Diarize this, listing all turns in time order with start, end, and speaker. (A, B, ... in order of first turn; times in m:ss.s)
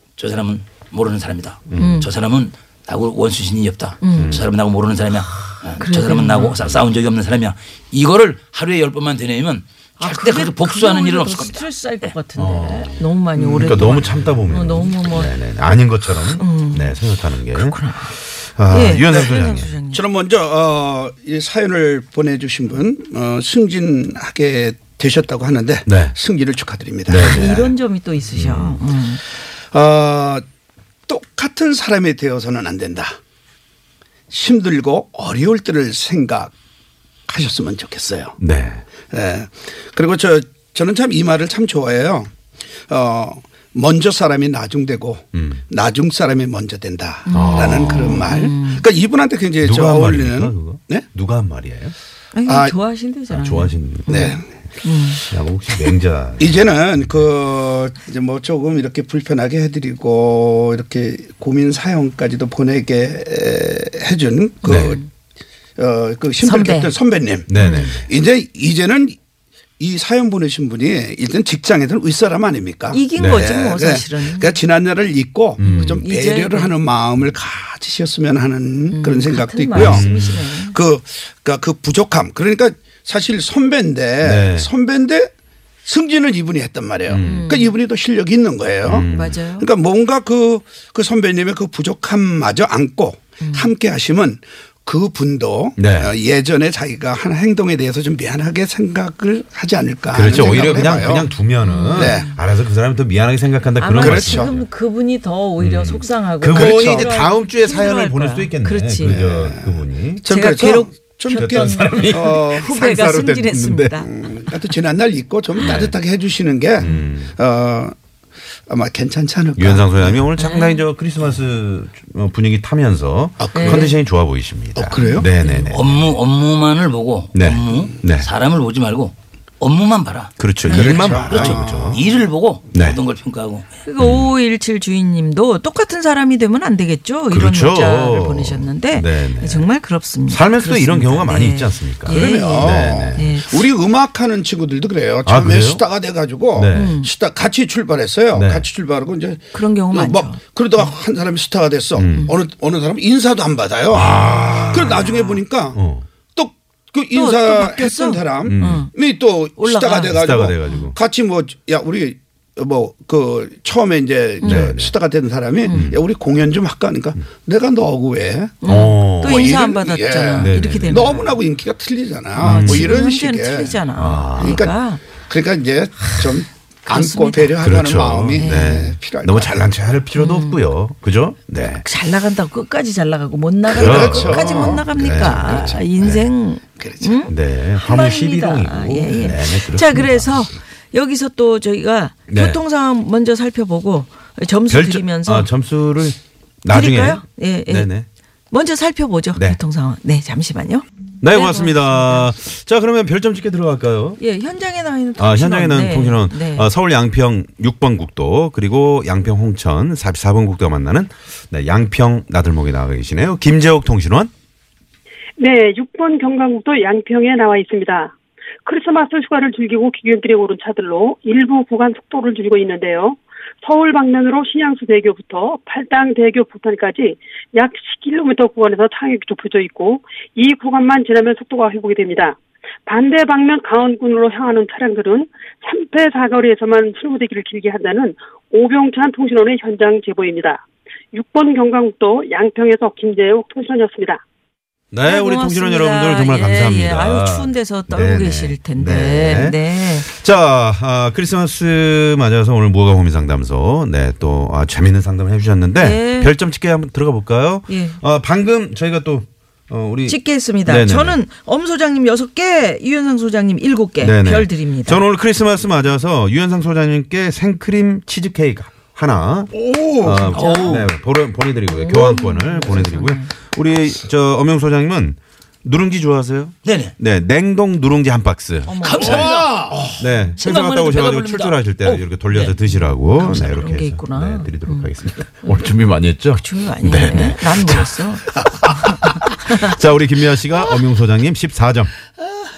0:00.2-0:12.1 A
0:01.7-0:02.0 B
0:01.8-0:02.1 C
0:04.0-0:04.4 C
0:04.1-0:04.5 B
0:05.8-0:06.6 C
0:10.0-0:15.4 C
0:12.4-0:19.7 B
0:16.2-0:18.2 C
0:18.7-0:20.0 C
0:19.1-0:27.6 D
0:25.9-0:26.2 B
0:27.1-0:27.7 B
0:27.2-0:29.2 C
0:28.3-0:28.8 B
0:29.7-0:30.4 D
0:31.1-0:33.2 D
0:34.3-0:36.5 D
0:37.3-0:38.4 D
0:38.4-0:38.8 B
0:39.1-0:42.3 D
0:42.9-0:51.1 D
0:45.3-0:45.6 B
0:47.3-0:48.8 C
0:47.3-0:48.3 B
0:49.6-0:52.0 B
0:52.3-0:55.2 C
0:52.5-0:52.8 D
0:53.3-0:54.5 B
0:54.1-0:54.4 D
0:55.2-0:57.2 B
0:56.4-1:05.0 D
1:04.6-1:05.1 C
1:04.6-1:05.0 B
1:05.8-1:09.2 D
1:06.4-1:06.9 C
1:07.5-1:08.1 B
1:07.6-1:07.9 C
1:09.8-1:25.3 D
1:12.9-1:14.6 C
1:13.2-1:13.5 B
1:15.6-1:16.0 B
1:15.6-1:16.8 C
1:18.9-1:20.8 C
1:19.7-1:20.4 B
1:24.2-1:24.7 B
1:25.8-1:41.3 D
1:27.1-1:27.4 B
1:27.2-1:27.8 C
1:28.8-1:29.4 B
1:29.1-1:29.7 C
1:33.4-1:33.7 C
1:35.8-1:36.1 B
1:40.1-1:44.7 B
1:40.4-1:40.7 C
1:41.6-1:42.4 C
1:42.0-1:42.3 D
1:43.8-1:49.2 C
1:44.0-1:44.5 D
1:45.6-1:50.3 B
1:46.5-1:47.2 D
1:49.0-1:58.0 D
1:50.3-1:54.1 C
1:51.4-1:53.9 B
1:55.6-1:56.0 B
1:56.8-1:57.4 B
1:58.7-2:00.2 D
1:59.6-2:06.2 B
2:00.4-2:00.8 C
2:03.4-2:04.0 D
2:03.5-2:04.0 C
2:04.8-2:05.3 D
2:04.9-2:05.7 C
2:05.7-2:13.7 A
2:07.3-2:08.3 B
2:10.4-2:12.0 B
2:10.6-2:12.0 D
2:10.7-2:11.1 C
2:12.7-2:13.0 B
2:13.8-2:23.7 C
2:14.0-2:14.3 B
2:17.3-2:19.7 B
2:20.3-2:23.3 B
2:22.1-2:35.8 D
2:25.2-2:25.8 B
2:26.5-2:27.0 B
2:26.7-2:27.1 C
2:28.3-2:28.7 B
2:29.5-2:30.9 C
2:32.0-2:32.3 B
2:33.9-2:35.1 B
2:34.5-2:35.4 C
2:35.7-2:36.1 B
2:36.3-2:48.6 D
2:37.1-2:38.9 C
2:38.5-2:38.8 B
2:39.6-2:40.9 C
2:40.1-2:41.0 B
2:44.4-2:44.7 C
2:44.4-2:44.9 B
2:45.7-2:46.0 B
2:48.6-2:51.4 C
2:48.6-2:49.5 B
2:49.2-2:53.8 D
2:50.4-2:51.2 B
2:52.4-2:53.0 B
2:52.4-2:55.0 C
2:54.0-2:54.6 B
2:54.4-2:59.7 D
2:56.9-2:57.6 C
2:57.6-3:01.9 B
2:58.4-2:58.9 C
3:00.2-3:00.6 C
3:01.7-3:15.5 C
3:03.7-3:05.8 D
3:03.7-3:06.3 B
3:06.8-3:07.2 D
3:07.3-3:10.4 B
3:12.3-3:12.6 B
3:14.7-3:18.1 B
3:16.7-3:17.9 C
3:18.5-3:22.3 C
3:21.2-3:24.2 B
3:24.2-3:26.7 C
3:25.2-3:34.3 B
3:35.4-3:38.1 E
3:38.6-4:04.2 E
4:04.9-4:21.2 B
4:05.1-4:10.1 C
4:15.8-4:16.3 C
4:17.7-4:18.0 C
4:20.1-4:25.0 C
4:24.0-4:39.4 B
4:29.5-4:30.8 D
4:30.3-4:30.8 C
4:30.3-4:30.8 A
4:31.7-4:33.3 C
4:36.6-4:37.0 A
4:38.7-4:39.4 C
4:38.8-4:39.9 A
4:39.0-4:40.0 D
4:39.9-4:51.9 B
4:40.4-4:42.6 A
4:42.6-4:44.9 C
4:45.4-4:49.7 C